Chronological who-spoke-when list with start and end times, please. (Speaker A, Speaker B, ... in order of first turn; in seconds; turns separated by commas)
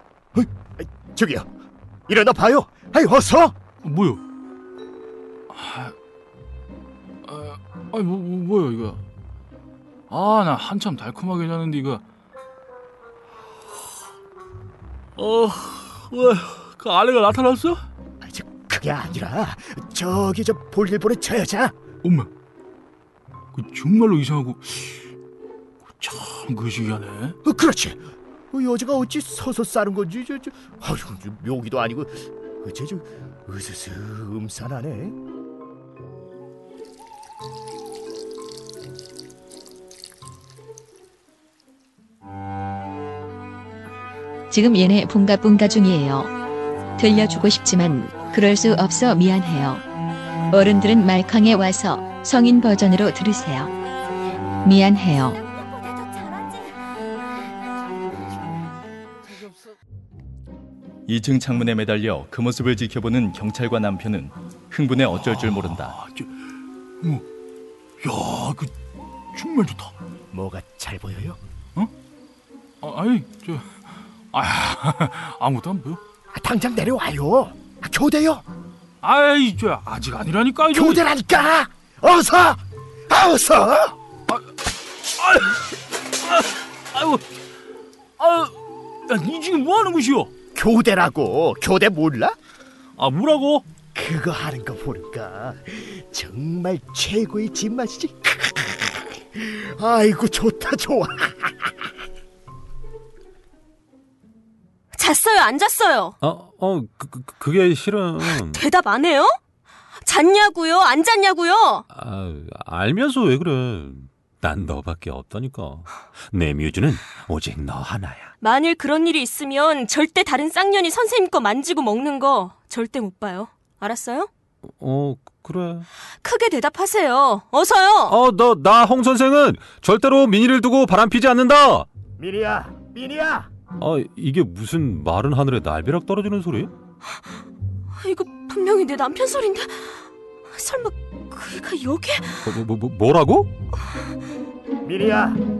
Speaker A: 0.3-1.5, Speaker A: 2.1-3.6, Speaker B: 3.8-4.2, Speaker B: 5.5-6.0, Speaker B: 7.2-9.0, Speaker B: 10.1-12.0, Speaker B: 15.2-17.9, Speaker A: 18.2-21.8, Speaker B: 22.0-22.3, Speaker B: 23.5-25.1, Speaker B: 25.9-27.4, Speaker A: 27.4-28.0, Speaker A: 28.5-35.2, Speaker C: 44.5-46.3, Speaker C: 47.0-49.8, Speaker C: 50.5-53.7, Speaker C: 54.6-55.4, Speaker D: 56.2-56.5, Speaker E: 61.1-66.0, Speaker B: 65.2-66.3, Speaker B: 68.0-68.7, Speaker B: 69.3-69.9, Speaker A: 70.3-71.4, Speaker B: 72.8-76.0, Speaker A: 76.3-78.4, Speaker B: 79.0-81.0, Speaker A: 80.7-84.0, Speaker B: 85.0-85.7, Speaker B: 86.2-87.2, Speaker B: 88.2-90.3, Speaker A: 90.5-92.4, Speaker B: 93.0-93.7, Speaker A: 93.9-101.7, Speaker D: 105.0-106.1, Speaker F: 106.2-108.6, Speaker D: 108.2-109.3, Speaker D: 110.0-111.8, Speaker F: 111.9-118.3, Speaker D: 118.4-124.3, Speaker F: 124.8-125.9, Speaker D: 126.2-128.2, Speaker F: 128.1-131.9, Speaker A: 132.2-133.5, Speaker F: 133.8-136.7, Speaker D: 138.0-139.9, Speaker D: 140.5-142.4, Speaker F: 142.5-143.5, Speaker A: 144.8-145.4